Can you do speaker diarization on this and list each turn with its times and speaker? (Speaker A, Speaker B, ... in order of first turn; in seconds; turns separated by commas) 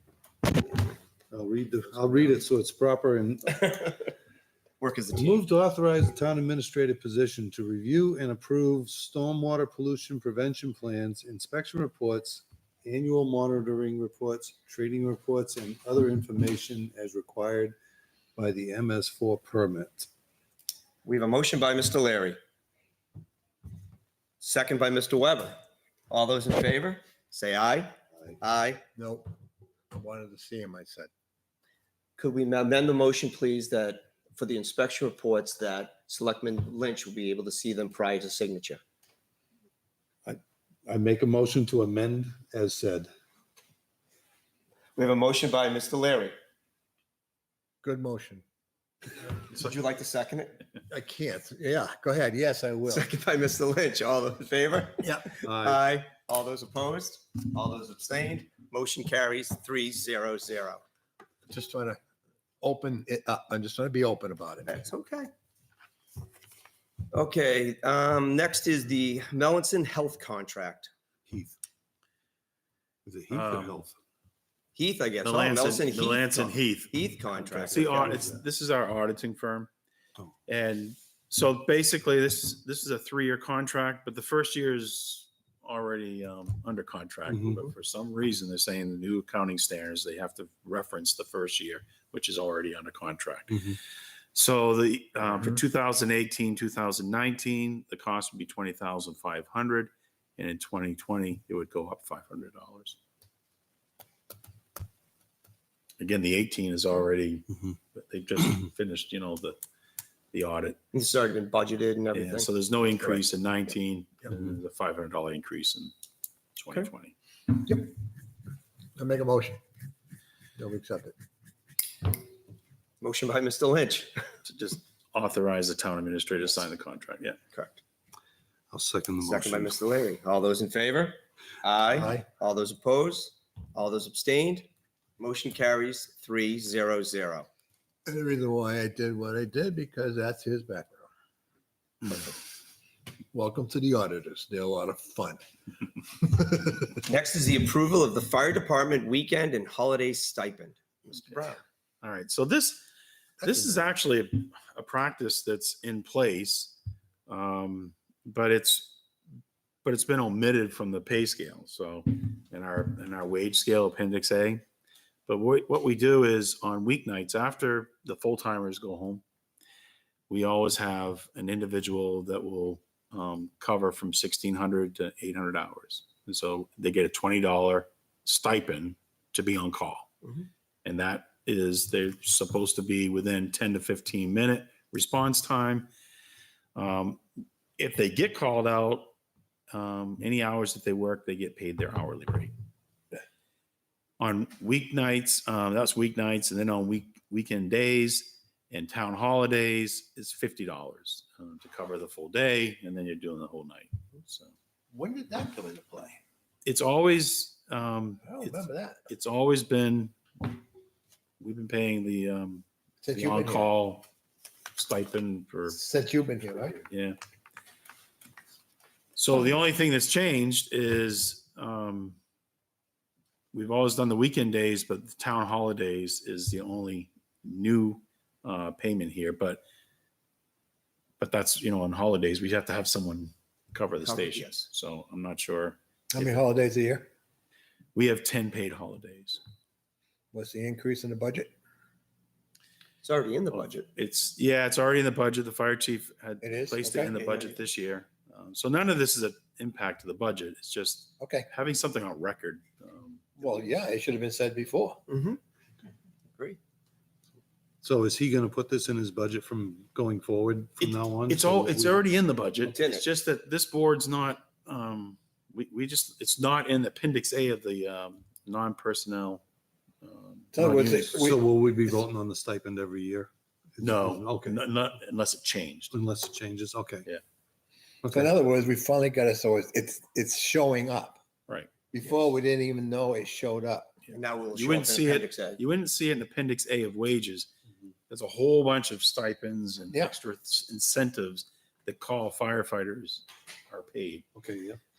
Speaker A: 1.3-3.8, Speaker B: 4.8-5.4, Speaker A: 5.2-17.7, Speaker A: 18.4-20.1, Speaker B: 21.0-22.4, Speaker B: 24.4-25.6, Speaker B: 26.1-28.8, Speaker C: 28.9-29.3, Speaker C: 29.9-31.1, Speaker B: 32.2-38.8, Speaker A: 40.2-43.1, Speaker B: 45.0-46.3, Speaker C: 47.8-48.4, Speaker B: 49.3-50.6, Speaker C: 50.9-53.1, Speaker B: 52.9-60.8, Speaker C: 55.0-55.3, Speaker A: 55.4-55.8, Speaker C: 61.5-62.0, Speaker C: 62.6-64.8, Speaker B: 64.7-65.3, Speaker B: 67.1-70.9, Speaker A: 71.3-71.5, Speaker A: 73.0-74.0, Speaker D: 73.3-73.8, Speaker B: 74.7-78.2, Speaker D: 75.2-76.9, Speaker A: 77.3-78.4, Speaker D: 77.7-79.7, Speaker D: 80.5-93.8, Speaker A: 87.3-87.6, Speaker A: 93.5-93.8, Speaker D: 94.3-103.0, Speaker D: 106.0-109.6, Speaker D: 110.3-110.8, Speaker B: 110.9-112.5, Speaker D: 112.1-115.9, Speaker D: 116.5-117.1, Speaker C: 117.6-117.9, Speaker C: 119.0-119.6, Speaker C: 120.6-121.1, Speaker B: 123.0-124.2, Speaker D: 124.4-127.4, Speaker B: 127.5-127.8, Speaker A: 128.7-129.8, Speaker B: 129.2-137.5, Speaker C: 131.9-132.2, Speaker C: 138.1-141.0, Speaker C: 143.3-145.4, Speaker C: 146.2-147.0, Speaker B: 147.1-151.0, Speaker C: 151.1-151.6, Speaker D: 152.0-152.9, Speaker C: 153.4-153.8, Speaker D: 153.4-156.8, Speaker D: 157.3-158.9, Speaker D: 159.8-164.6, Speaker D: 165.3-169.2, Speaker D: 170.3-180.1, Speaker D: 180.8-185.9, Speaker D: 186.7-187.2, Speaker D: 187.8-189.1, Speaker D: 189.7-192.5, Speaker D: 194.2-204.5, Speaker C: 204.9-206.2, Speaker D: 206.6-210.4, Speaker C: 208.2-209.0, Speaker D: 211.4-214.1, Speaker C: 213.0-213.7, Speaker D: 214.7-215.8, Speaker C: 215.7-216.8, Speaker D: 216.9-217.2, Speaker D: 219.2-222.2, Speaker D: 223.5-229.6, Speaker D: 231.2-236.4, Speaker B: 234.0-234.5, Speaker C: 236.1-237.1, Speaker D: 237.9-239.4, Speaker C: 240.3-241.5, Speaker B: 243.0-243.9, Speaker D: 243.5-253.5, Speaker C: 246.4-247.2, Speaker B: 247.2-247.6, Speaker C: 251.2-251.5, Speaker C: 253.4-255.0, Speaker B: 255.1-255.4, Speaker A: 257.8-262.0, Speaker D: 260.8-269.4, Speaker B: 262.7-263.1, Speaker D: 270.0-271.3, Speaker C: 270.5-271.4, Speaker A: 271.1-274.6, Speaker D: 273.8-275.9, Speaker A: 275.9-277.1, Speaker A: 278.0-278.3, Speaker C: 278.1-281.2, Speaker C: 281.9-283.9, Speaker B: 284.1-285.6, Speaker D: 284.5-287.5, Speaker D: 288.1-294.2, Speaker A: 294.3-294.8